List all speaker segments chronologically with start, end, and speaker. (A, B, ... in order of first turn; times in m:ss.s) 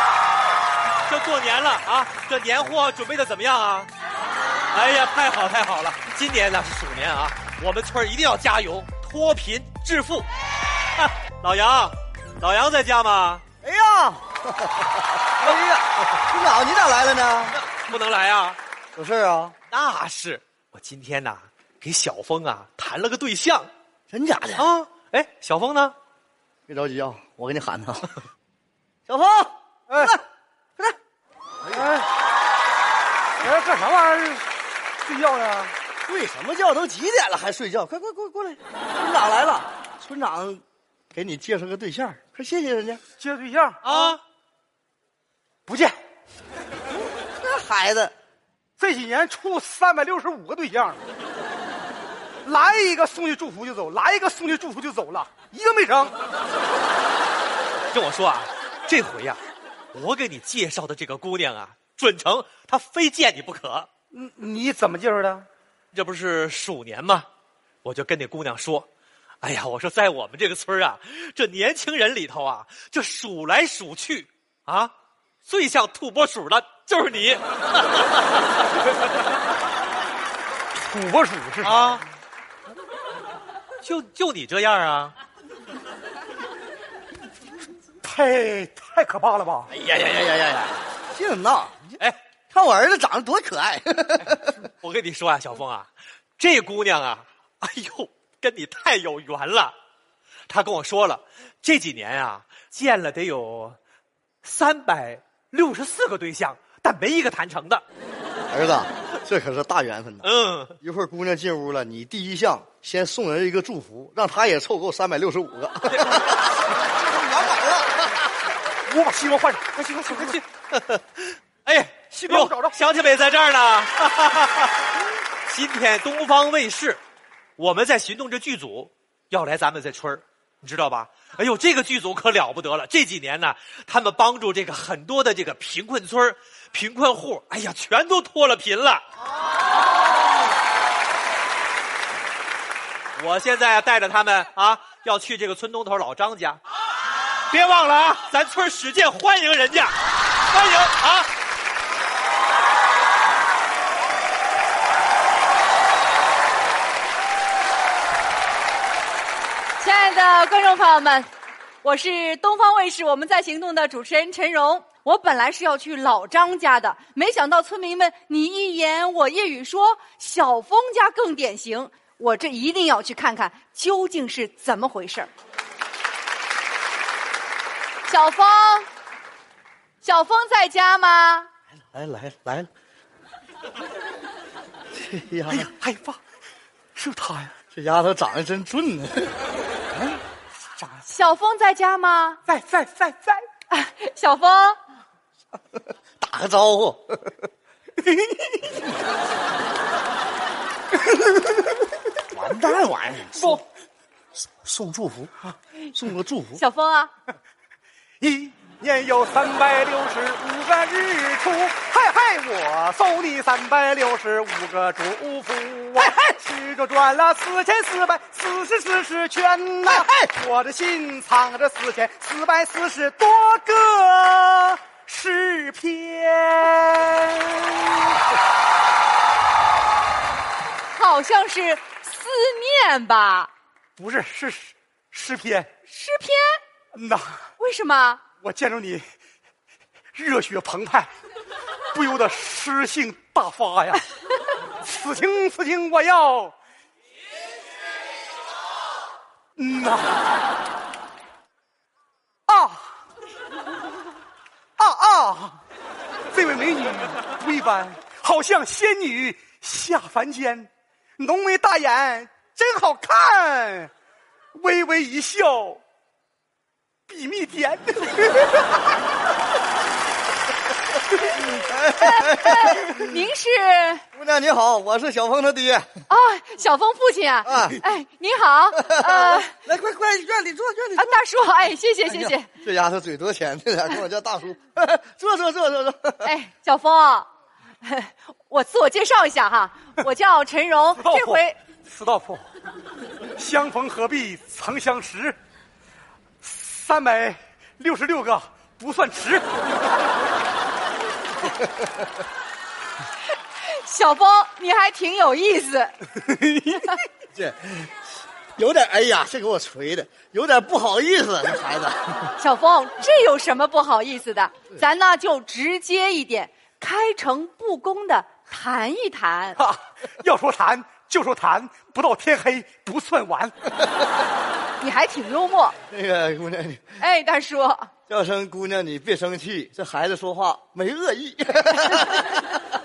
0:01.0-0:03.9 A
0:04.7-0:10.2 A
0:11.0-0:13.4 A
0:13.6-0:17.6 B
0:17.5-0:18.6 A
0:18.9-0:19.5 B
0:19.7-0:23.7 A
0:24.1-0:24.7 B
0:24.6-0:25.9 A
0:26.7-0:28.2 B
0:29.1-0:30.2 B
0:29.9-0:30.2 C
0:31.6-0:31.9 B
0:31.7-0:32.0 C
0:33.4-0:34.5 C
0:35.0-0:35.7 C
0:36.0-0:40.6 B
0:41.1-0:43.0 B
0:43.2-0:44.2 C
0:43.8-0:44.2 A
0:45.7-0:46.0 C
0:47.3-0:48.1 B
0:48.8-0:51.0 C
0:52.4-0:56.1 C
0:57.9-0:59.4 A
0:59.9-1:03.9 A
1:04.1-1:05.5 C
1:05.9-1:07.2 A
1:07.8-1:08.8 A
1:09.4-1:14.9 A
1:15.4-1:18.4 A
1:20.8-1:21.9 C
1:21.6-1:22.0 A
1:23.8-1:25.1 A
1:28.0-1:29.7 C
1:29.7-1:32.0 B
1:32.5-1:34.5 B
1:34.2-1:39.7 A
1:40.5-1:43.8 A
1:44.4-1:47.8 A
1:48.5-1:50.3 B
1:50.2-1:50.7 A
1:50.8-1:58.3 B
1:55.9-1:56.3 A
1:58.9-2:00.4 C
2:00.1-2:07.0 A
2:02.1-2:02.7 C
2:07.6-2:19.0 A
2:23.2-2:26.6 A
2:27.5-2:29.9 A
2:30.5-2:31.3 A
2:39.8-2:41.3 D
2:41.8-2:55.3 D
2:58.1-2:58.9 D
3:00.0-3:01.5 D
3:01.9-3:02.7 B
3:04.9-3:05.7 B
3:05.5-3:06.2 C
3:07.0-3:07.5 C
3:07.7-3:09.3 B
3:09.9-3:10.2 B
3:10.6-3:11.0 C
3:11.1-3:12.4 D
3:12.5-3:13.4 C
3:13.7-3:14.8 D
3:16.2-3:17.4 B
3:18.0-3:18.8 C
3:21.2-3:21.6 C
3:22.3-3:23.6 B
3:23.4-3:23.6 C
3:24.6-3:25.3 B
3:25.9-3:26.6 B
3:26.5-3:27.1 D
3:28.2-3:48.2 C
3:50.9-3:53.5 D
3:54.0-3:55.7 C
3:55.9-3:56.6 D
3:56.9-3:57.4 C
3:57.6-3:58.2 D
3:58.4-3:59.0 C
4:00.1-4:01.1 C
4:01.9-4:04.0 C
4:04.8-4:06.5 C
4:09.6-4:10.2 C
4:12.5-4:12.9 C
4:14.8-4:15.6 C
4:16.3-4:23.9 C
4:24.5-4:25.8 C
4:27.1-4:28.8 C
4:31.3-4:33.1 B
4:32.0-4:34.0 D
4:34.1-4:35.9 B
4:36.1-4:39.5 D
4:37.5-4:37.8 B
4:38.8-4:41.2 B
4:41.0-4:42.5 D
4:42.2-4:46.3 B
4:46.2-4:47.3 D
4:47.8-4:51.6 D
4:51.0-4:52.5 C
4:53.4-4:55.4 C
4:56.4-4:59.6 C
5:03.6-5:06.0 D
5:06.2-5:06.9 C
5:07.3-5:07.9 B
5:08.6-5:12.3 B
5:12.4-5:19.6 D
5:19.6-5:23.5 C
5:24.8-5:25.8 D
5:25.9-5:26.9 B
5:27.0-5:27.9 D
5:28.1-5:32.4 B